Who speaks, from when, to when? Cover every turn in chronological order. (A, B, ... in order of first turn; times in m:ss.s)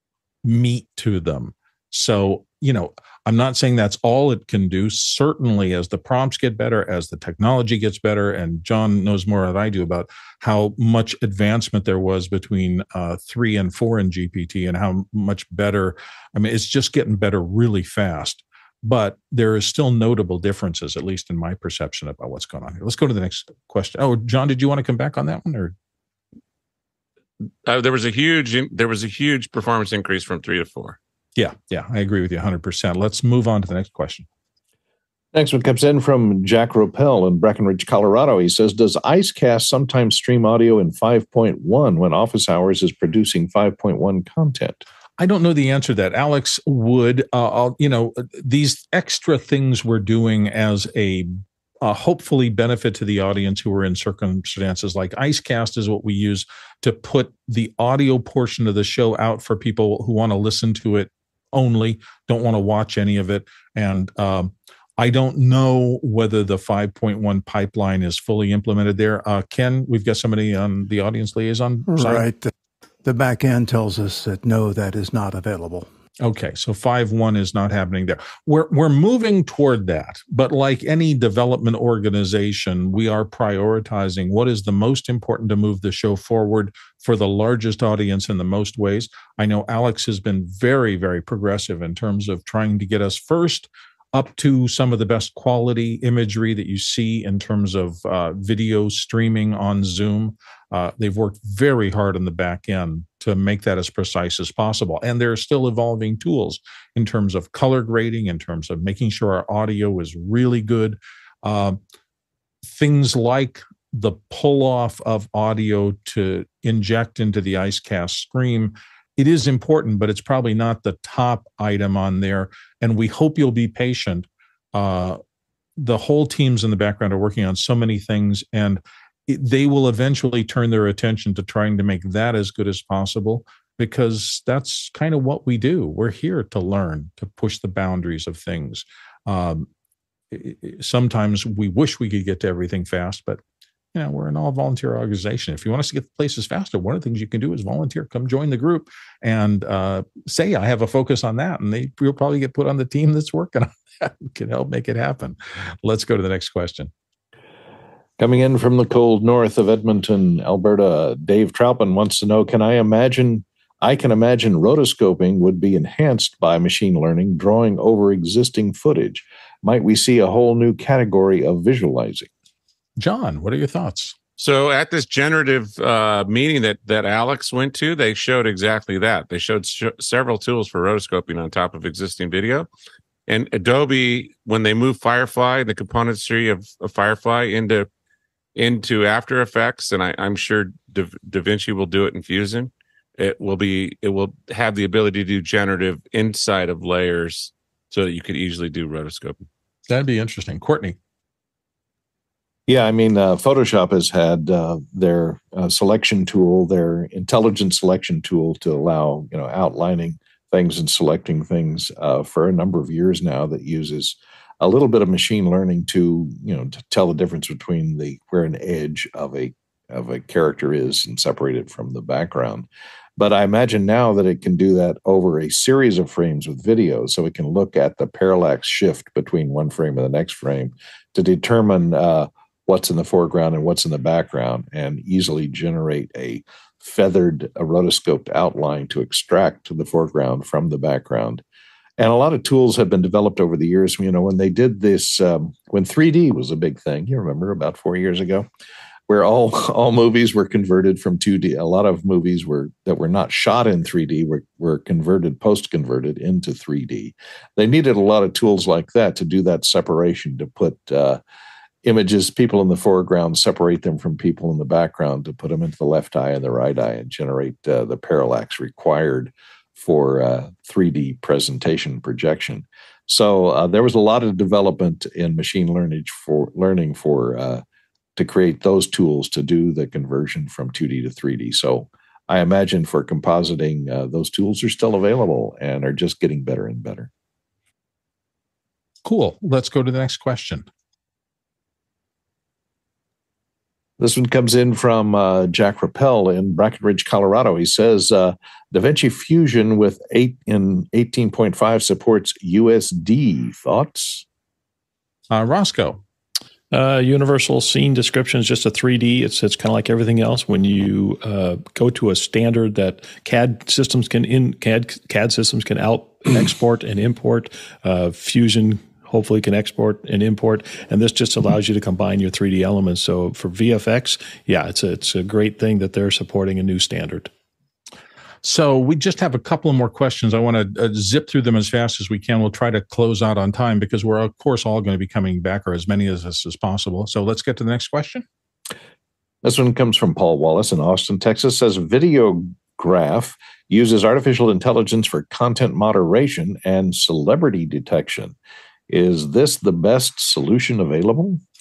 0:00.4-0:25.7 A
0:27.6-0:31.0 B
0:31.4-0:34.2 A
0:35.3-0:44.8 C
0:45.2-0:51.3 A
0:51.8-1:12.2 A
1:11.9-1:12.5 D
1:13.0-1:15.9 D
1:16.2-1:51.8 A
1:52.6-2:05.2 A
2:05.8-2:19.7 A
2:20.3-2:23.4 A
2:23.9-2:36.9 A
2:38.2-2:52.3 C
2:53.0-2:54.1 A
2:54.4-3:02.7 B
3:03.3-3:07.9 B
3:08.6-3:19.5 B
3:19.9-3:21.0 A
3:22.7-4:01.4 C
4:02.0-4:08.5 C
4:09.1-4:21.2 C
4:21.8-4:37.6 C
4:38.2-4:47.1 C
4:49.0-4:50.6 A
4:54.0-5:04.2 C
5:05.3-5:06.0 A
5:06.7-5:27.3 E
5:28.4-5:38.2 A
5:39.4-5:48.3 C
5:48.9-5:51.4 C